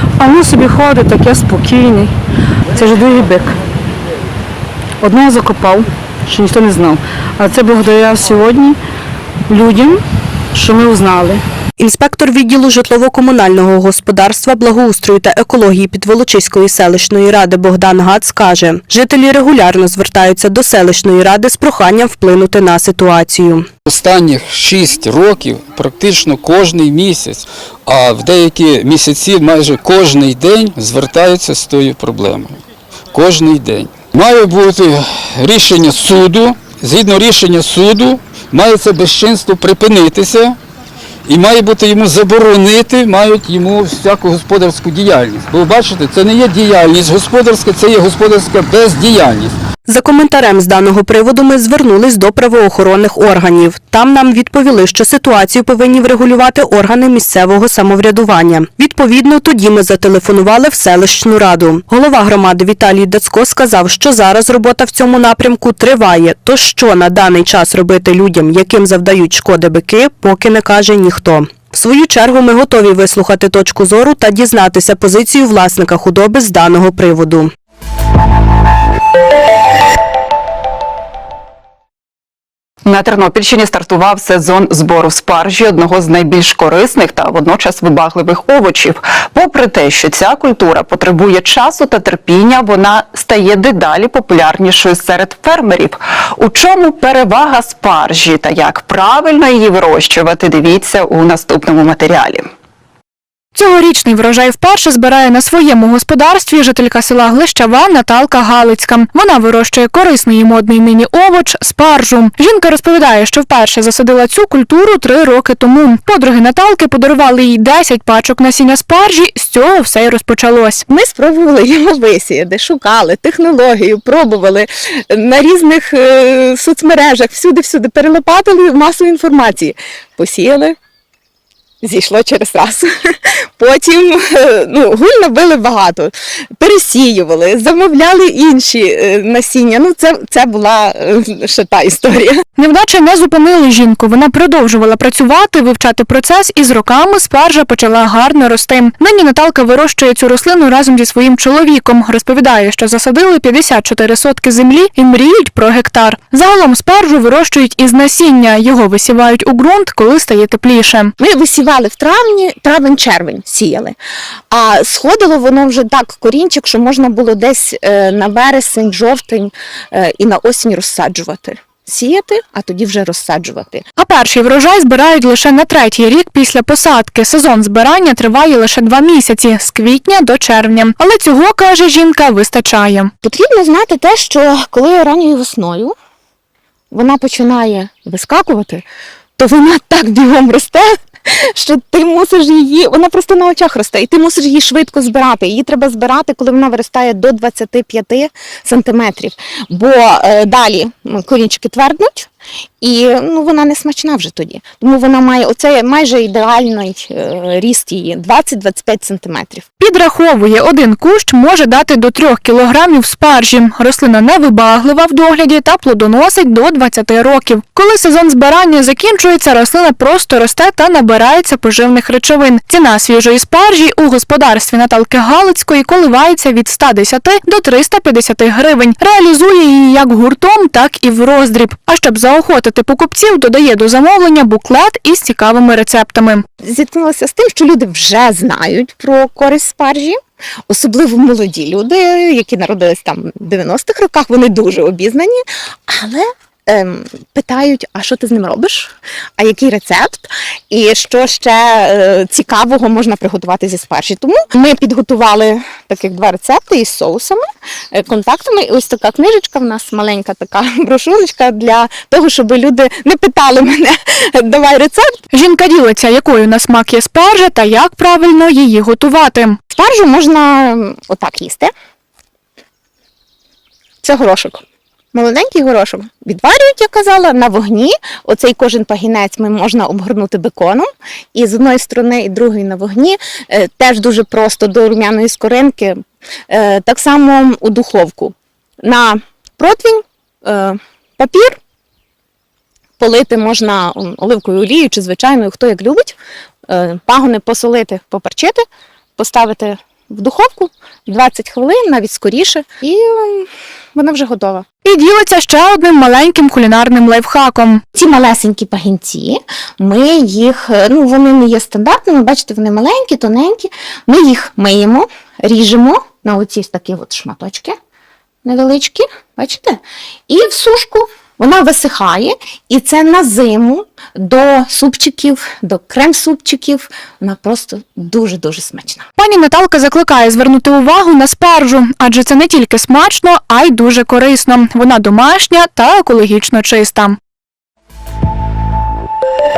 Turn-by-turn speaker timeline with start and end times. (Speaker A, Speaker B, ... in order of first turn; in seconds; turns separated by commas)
Speaker A: 0.2-2.1, Speaker A: 2.8-3.5, Speaker A: 5.0-8.7, Speaker A: 9.5-10.0, Speaker A: 10.5-11.4, Speaker B: 11.8-23.7, Speaker C: 23.9-32.6, Speaker C: 33.1-40.6, Speaker C: 41.2-49.5, Speaker B: 49.9-77.5, Speaker D: 82.8-102.5, Speaker E: 103.5-120.8, Speaker F: 120.9-130.8, Speaker F: 131.8-142.4, Speaker E: 142.6-161.1, Speaker F: 161.2-163.9, Speaker F: 164.5-173.8, Speaker E: 174.0-183.1, Speaker F: 183.2-185.9, Speaker F: 186.9-188.8, Speaker F: 189.4-202.3, Speaker F: 202.8-209.7, Speaker E: 209.8-236.4, Speaker F: 236.6-240.2, Speaker F: 240.7-265.1, Speaker E: 265.3-269.6, Speaker F: 269.7-271.7, Speaker F: 274.0-274.6, Speaker F: 275.1-291.6, Speaker F: 293.0-296.2, Speaker F: 296.7-298.6, Speaker F: 299.2-304.6, Speaker E: 304.8-307.8, Speaker F: 307.9-317.7, Speaker F: 318.4-329.1, Speaker E: 329.2-337.2